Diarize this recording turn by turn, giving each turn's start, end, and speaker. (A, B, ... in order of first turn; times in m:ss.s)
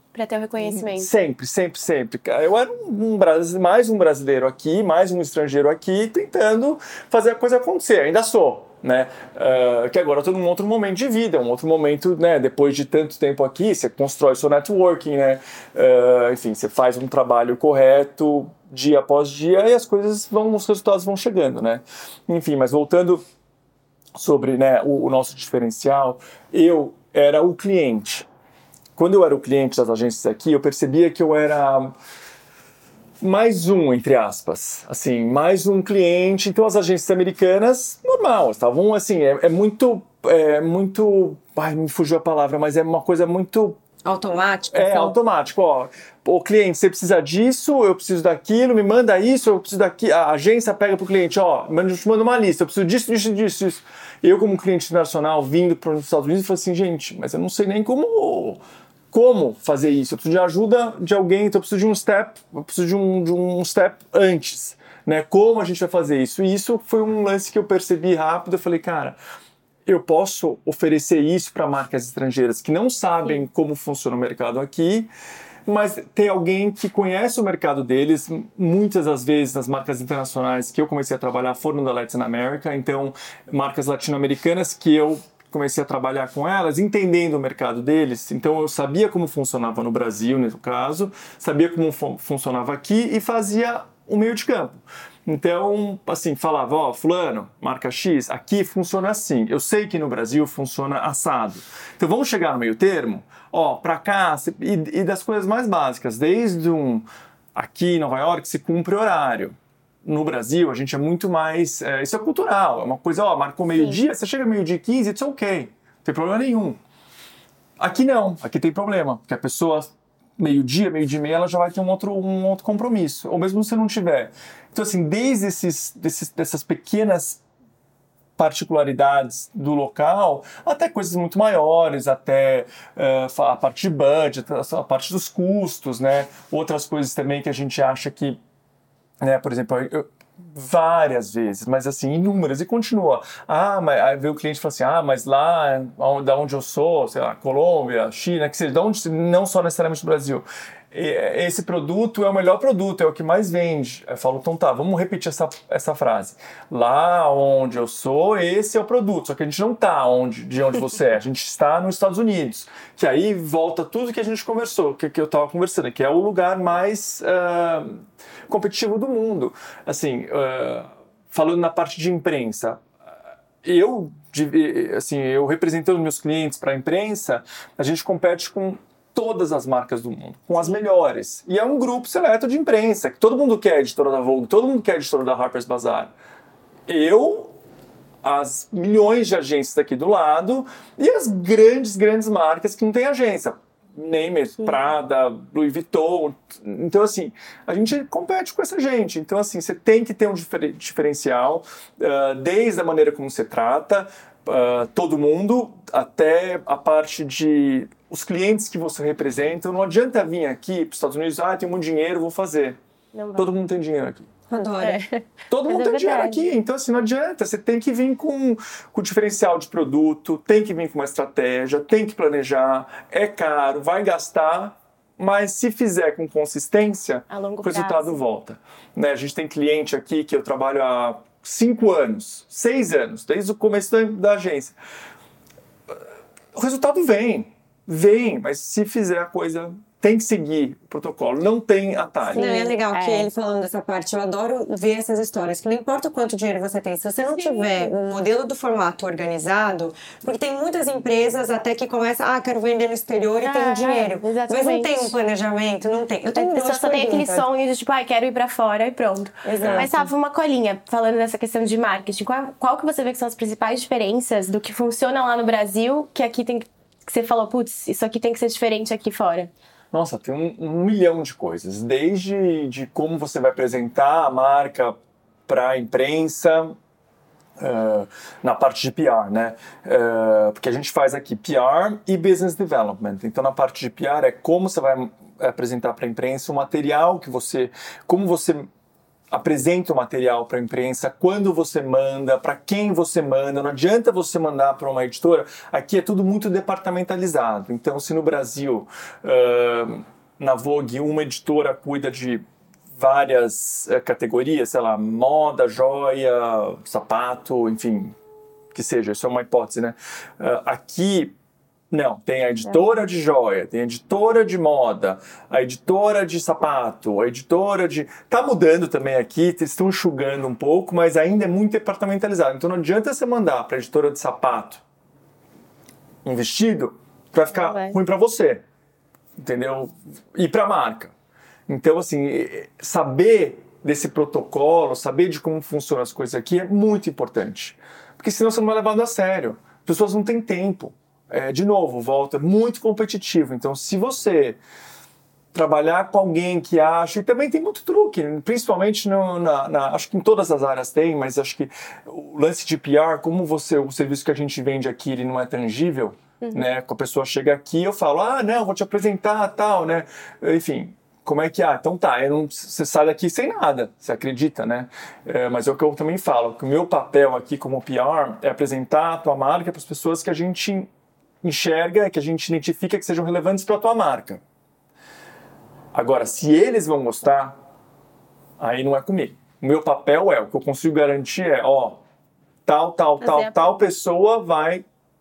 0:00.1-0:01.1 A
0:00.6-0:23.2 B
0:24.1-0:28.3 B
0:29.0-0:31.9 B
0:33.2-0:43.8 B
0:44.0-0:45.1 C
0:44.7-0:58.6 B
0:59.1-1:09.2 B
1:09.8-1:15.1 B
1:15.7-1:56.8 B
1:57.8-2:07.4 B
2:08.4-2:18.4 B
2:19.2-2:52.8 B
2:53.6-3:06.1 B
3:06.9-3:07.5 B
3:08.2-3:32.8 B
3:33.1-3:33.5 A
3:33.4-3:34.3 B
3:34.5-3:35.0 C
3:34.8-3:36.4 A
3:35.5-3:54.8 B
3:47.3-3:48.2 A
3:56.5-4:02.5 B
4:02.2-4:03.3 A
4:02.3-4:17.4 C
4:07.3-4:07.9 A
4:13.4-4:15.1 A
4:16.4-4:29.5 A
4:19.4-4:20.1 C
4:19.6-4:19.9 B
4:29.9-4:36.8 B
4:37.6-4:48.7 B
4:49.3-5:08.2 B
5:08.7-5:11.3 B
5:11.9-5:24.8 B
5:26.2-5:28.6 B
5:27.5-5:28.0 A
5:29.4-5:31.1 B
5:31.7-5:44.6 B
5:45.5-6:10.9 B
6:11.4-6:14.4 B
6:15.9-6:17.6 B
6:18.6-6:22.0 B
6:22.6-6:24.8 B
6:23.2-6:23.5 A